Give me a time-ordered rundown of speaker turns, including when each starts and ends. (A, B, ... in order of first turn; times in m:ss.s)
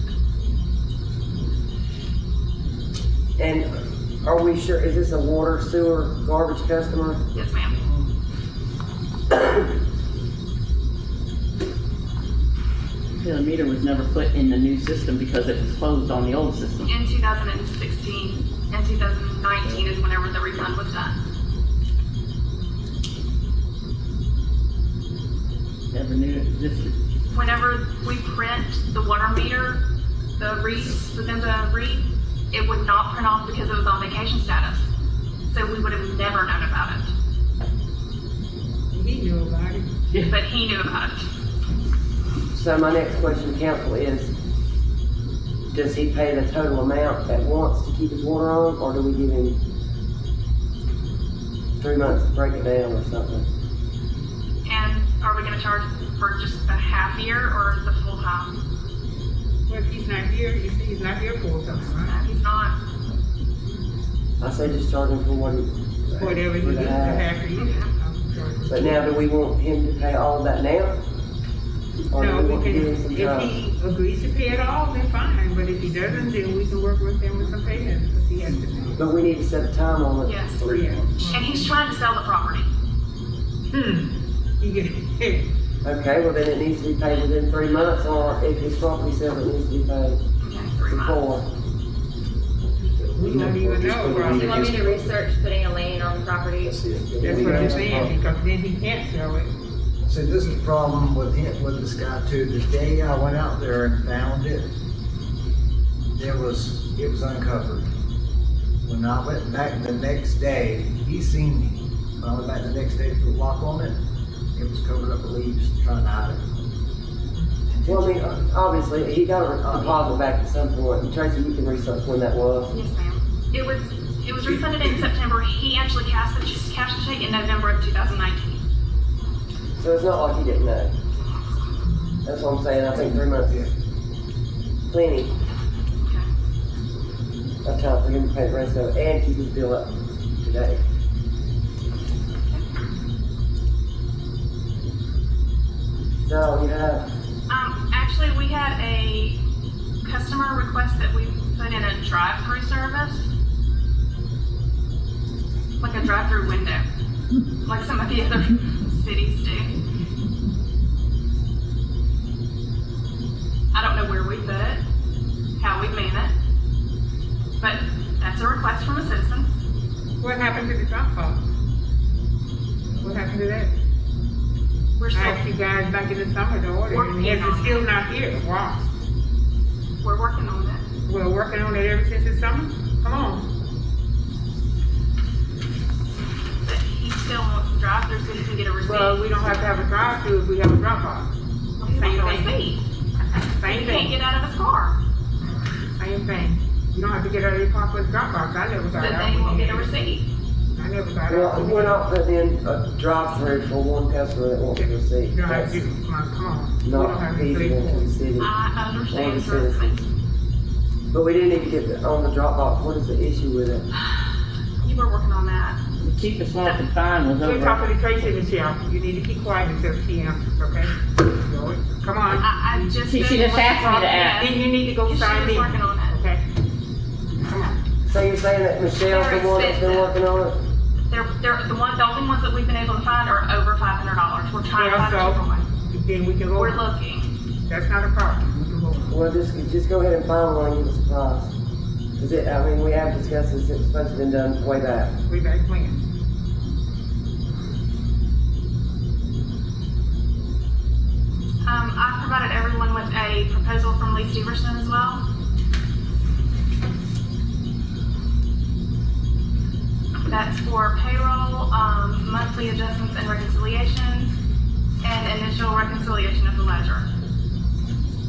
0:03.4-0:03.7 A
0:04.2-0:07.2 A
0:07.3-0:07.8 B
0:13.2-0:16.9 C
0:16.8-0:21.2 B
0:25.9-0:26.9 C
0:27.3-0:29.8 B
0:30.4-0:34.9 B
0:35.5-0:37.1 B
0:38.9-0:39.9 D
0:40.3-0:41.2 B
0:42.5-0:44.3 A
0:45.7-0:49.6 A
0:51.8-0:53.4 A
0:54.6-0:58.5 B
0:59.7-1:02.2 D
1:02.1-1:02.7 B
1:04.4-1:07.3 A
1:06.2-1:09.1 D
1:07.6-1:07.9 B
1:08.6-1:11.0 A
1:12.1-1:13.5 A
1:12.1-1:19.1 D
1:19.0-1:21.1 A
1:20.2-1:20.6 B
1:20.7-1:21.7 D
1:21.3-1:22.7 B
1:23.7-1:25.5 D
1:25.8-1:30.2 A
1:30.4-1:31.3 B
1:30.9-1:31.4 A
1:32.8-1:35.1 E
1:33.2-1:34.7 D
1:34.1-1:36.8 F
1:36.7-1:37.8 E
1:37.2-1:38.1 A
1:37.2-1:39.5 D
1:40.0-1:44.7 E
1:46.1-1:47.9 E
1:48.8-1:54.0 E
1:54.5-1:56.4 E
1:57.7-1:58.3 E
1:57.8-2:02.7 A
1:59.6-2:00.0 E
2:02.7-2:08.6 B
2:09.8-2:10.9 A
2:12.2-2:13.7 A
2:14.9-2:15.3 A
2:17.6-2:20.8 A
2:26.2-2:27.1 A
2:27.5-2:29.4 B
2:30.0-2:33.3 B
2:35.8-2:36.8 B
2:37.6-2:39.8 B
2:43.7-2:44.8 B
2:45.6-2:46.3 B
2:47.6-2:49.5 B
2:50.2-2:51.4 D
2:53.0-2:53.7 D
2:55.0-2:55.4 B
2:55.1-2:58.9 D
2:56.9-2:57.8 B
3:00.0-3:00.8 B
3:01.0-3:03.4 D
3:06.6-3:09.2 B
3:08.8-3:11.3 D
3:11.8-3:12.8 B
3:11.9-3:12.7 D
3:13.5-3:14.2 D
3:13.6-3:15.0 B
3:16.0-3:19.9 D
3:19.0-3:20.2 B
3:20.7-3:22.0 D
3:21.3-3:25.8 A
3:24.8-3:28.0 D
3:26.8-3:28.5 A
3:28.4-3:30.0 B
3:29.1-3:30.0 A
3:31.1-3:33.8 A
3:34.8-3:35.8 B
3:36.0-3:37.8 C
3:37.4-3:42.5 D
3:42.3-3:46.1 B
3:43.0-3:44.4 C
3:43.9-3:46.4 D
3:47.4-3:47.7 D
3:48.0-3:50.6 A
3:49.0-3:50.1 B
3:51.1-3:55.7 B
3:54.7-3:56.8 D
3:56.5-3:57.3 B
3:57.7-3:59.2 D
3:59.1-4:01.5 A
4:02.2-4:05.2 A
4:05.3-4:06.0 D
4:11.6-4:15.2 B
4:20.3-4:24.4 B
4:25.0-4:27.1 B